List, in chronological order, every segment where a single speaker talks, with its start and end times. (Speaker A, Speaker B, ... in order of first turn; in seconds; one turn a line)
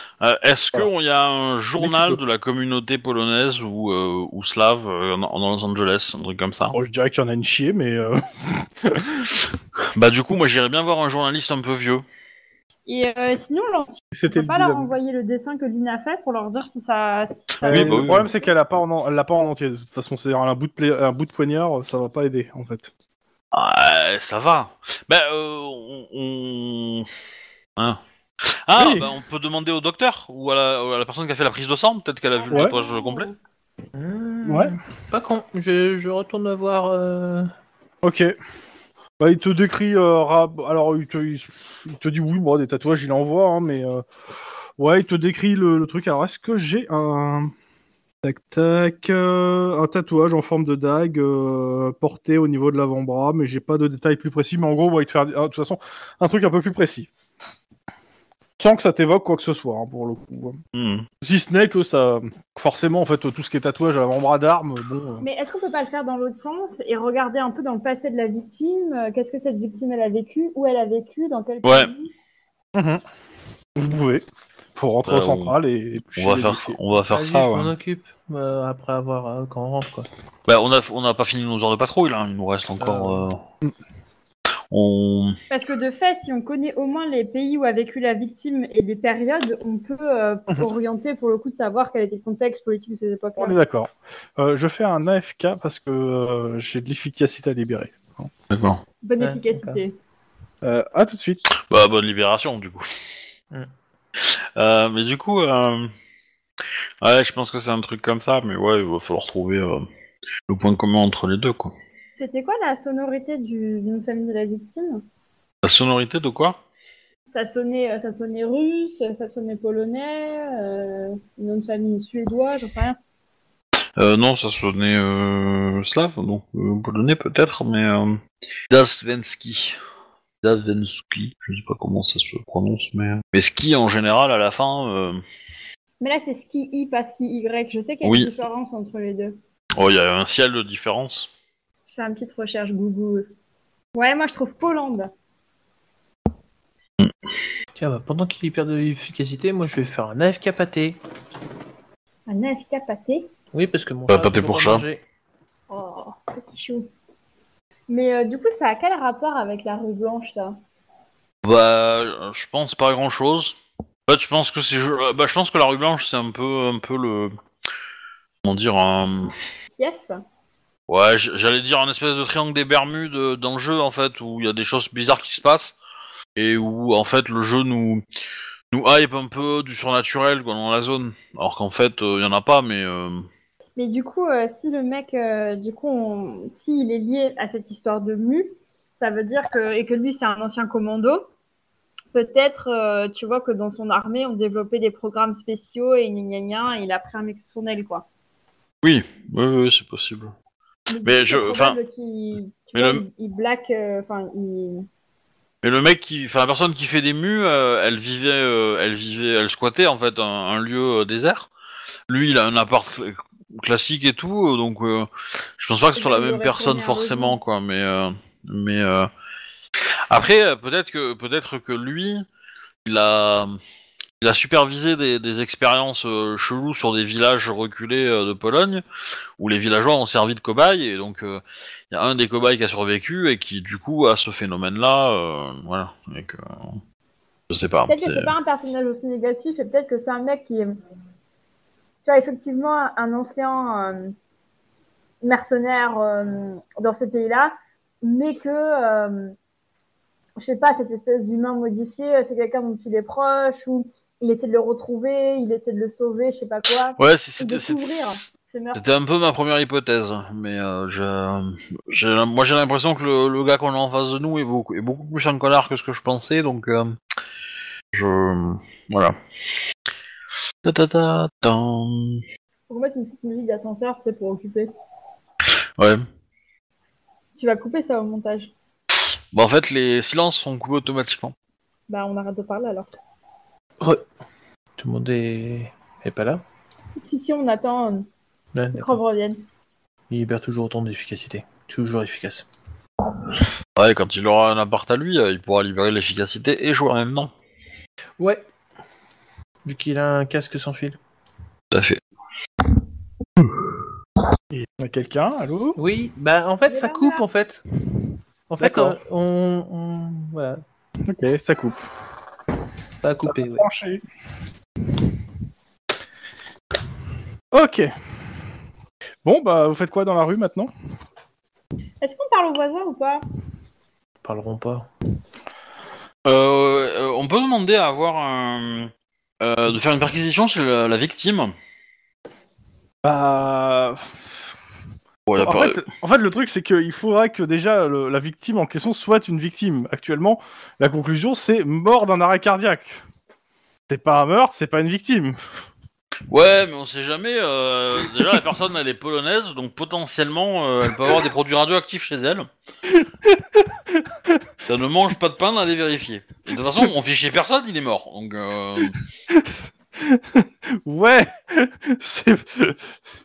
Speaker A: 0.2-6.8
Speaker B: 1.8-2.2
Speaker B: 6.7-9.3
Speaker A: 9.9-12.0
Speaker C: 12.9-18.5
Speaker B: 14.1-14.9
Speaker A: 17.6-18.3
Speaker B: 17.7-22.9
Speaker A: 23.5-27.1
Speaker A: 28.7-33.3
Speaker B: 28.8-29.1
Speaker C: 32.4-33.4
Speaker D: 34.0-37.5
Speaker B: 34.5-34.8
Speaker B: 38.0-38.3
Speaker B: 39.2-44.0
Speaker B: 44.8-47.5
Speaker B: 48.2-57.1
Speaker B: 58.6-60.6
Speaker A: 60.7-61.1
Speaker B: 61.2-65.2
Speaker C: 65.2-72.1
Speaker A: 71.6-71.9
Speaker B: 72.8-73.0
Speaker B: 73.8-74.2
Speaker B: 74.8-76.8
Speaker A: 75.1-75.5
Speaker A: 76.2-77.7
Speaker D: 77.1-80.1
Speaker A: 80.5-83.4
Speaker D: 82.8-83.3
Speaker A: 84.7-85.4
Speaker C: 85.5-93.6
Speaker B: 93.4-98.3
Speaker A: 98.5-98.8
Speaker C: 99.0-100.0
Speaker D: 99.2-99.8
Speaker B: 100.6-101.5
Speaker A: 101.7-102.9
Speaker A: 104.2-105.9
Speaker A: 107.0-109.9
Speaker A: 110.5-111.7
Speaker C: 112.2-115.0
Speaker A: 115.6-116.6
Speaker C: 117.3-123.0
Speaker A: 124.0-129.8
Speaker A: 130.4-135.2
Speaker C: 136.0-139.4
Speaker A: 138.0-138.3
Speaker A: 139.8-141.3
Speaker C: 141.9-143.3
Speaker C: 143.9-145.1
Speaker D: 147.8-151.0
Speaker C: 152.3-153.3
Speaker D: 153.5-155.0
Speaker A: 154.1-154.8
Speaker C: 155.7-156.9
Speaker C: 157.9-160.6
Speaker A: 161.4-167.3
Speaker A: 168.4-169.3
Speaker C: 169.7-170.2
Speaker A: 170.9-175.8
Speaker A: 176.4-178.0
Speaker A: 178.7-183.3
Speaker C: 183.8-191.3
Speaker C: 192.1-198.1
Speaker A: 198.8-200.3
Speaker C: 200.9-204.9
Speaker A: 201.0-201.8
Speaker A: 202.8-203.0
Speaker A: 205.6-211.5
Speaker A: 212.1-219.1
Speaker C: 216.0-217.4
Speaker A: 220.1-222.3
Speaker A: 222.8-223.6
Speaker A: 224.2-228.8
Speaker A: 229.4-236.8
Speaker A: 237.5-238.3
Speaker C: 237.9-240.8
Speaker C: 242.1-244.1
Speaker C: 245.2-249.3
Speaker C: 250.4-258.8
Speaker A: 257.0-258.1
Speaker A: 258.8-267.0
Speaker A: 267.9-269.1
Speaker A: 270.6-272.2
Speaker C: 272.7-274.7
Speaker A: 275.8-276.0
Speaker C: 277.4-278.5
Speaker A: 279.3-281.3
Speaker C: 281.9-282.9
Speaker D: 284.8-286.4
Speaker C: 287.0-288.1
Speaker D: 288.5-289.0
Speaker C: 288.7-289.4
Speaker D: 290.1-292.4
Speaker A: 293.8-297.3
Speaker D: 298.2-298.4
Speaker D: 299.6-301.0
Speaker A: 301.7-302.0
Speaker B: 304.5-305.8
Speaker D: 305.8-307.7
Speaker C: 306.7-307.2
Speaker D: 308.5-310.6
Speaker B: 308.6-309.0
Speaker B: 311.1-311.8
Speaker D: 313.0-313.7
Speaker B: 313.3-314.0
Speaker B: 317.5-317.9
Speaker B: 319.2-320.7
Speaker C: 322.0-323.2
Speaker D: 324.2-324.9
Speaker A: 326.3-328.9
Speaker A: 329.4-331.5
Speaker B: 333.0-334.2
Speaker A: 335.3-335.8
Speaker B: 335.4-343.0
Speaker B: 343.9-345.4
Speaker A: 346.3-352.5
Speaker B: 352.9-354.4
Speaker A: 354.7-359.0
Speaker B: 358.8-362.9